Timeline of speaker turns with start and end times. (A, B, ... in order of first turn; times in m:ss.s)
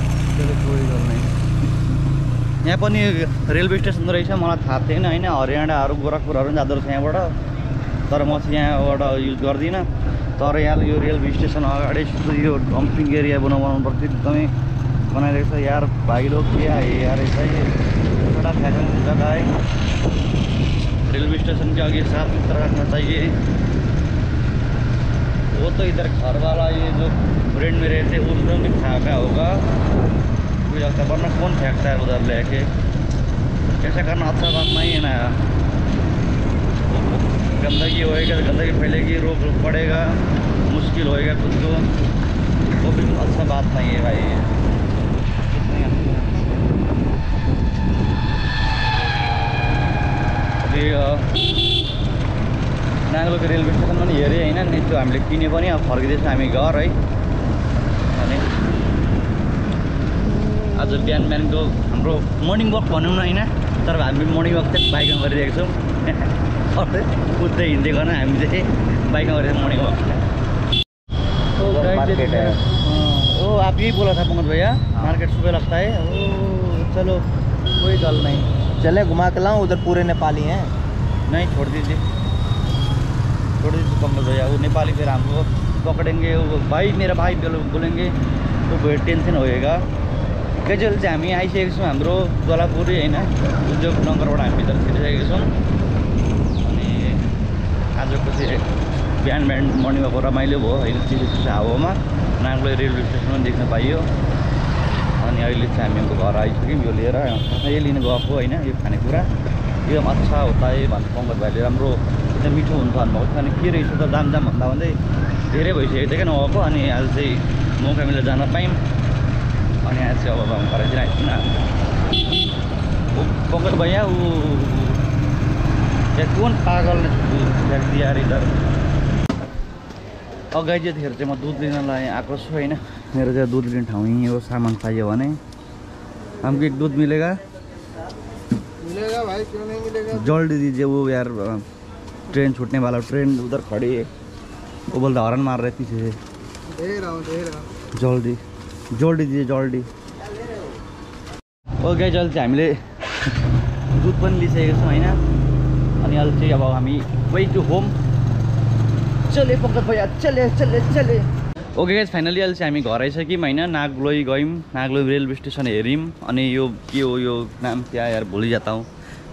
0:00.3-0:01.3 A
0:02.6-0:07.4 A
0:08.1-0:14.5 A
0:15.1-0:19.5 A
0:21.0-0:23.4 A
0:25.5-0:29.7 A
0:30.6-0:32.7 A
0:33.8-0:35.4 A
0:36.9-0:41.9 A
0:42.8-0:44.6 A
0:45.5-0:46.5 A
0:50.6-0:51.4 A
0:53.1-0:57.0 A
0:58.1-0:58.5 A
1:00.6-1:10.2 A
1:11.6-1:17.2 A
1:11.6-1:12.6 B
1:14.9-1:15.2 B
1:17.8-1:18.5 A
1:18.8-1:20.7 B
1:21.3-1:22.0 A
1:23.6-1:28.1 A
1:28.7-1:29.8 A
1:30.6-1:35.5 A
1:36.6-1:37.2 A
1:38.0-1:38.6 A
1:39.2-1:44.1 A
1:45.2-1:49.3 A
1:49.8-1:55.0 A
1:55.5-1:58.8 A
1:59.8-2:01.5 A
2:03.2-2:05.0 A
2:06.1-2:08.5 A
2:10.5-2:15.4 A
2:16.4-2:17.4 A
2:18.9-2:20.0 C
2:20.0-2:21.6 A
2:22.3-2:24.1 A
2:24.9-2:26.2 A
2:26.8-2:27.6 C
2:27.9-2:28.4 A
2:28.9-2:29.9 A
2:31.8-2:33.3 A
2:33.9-2:35.2 A
2:36.0-2:37.9 A
2:39.3-2:48.9 A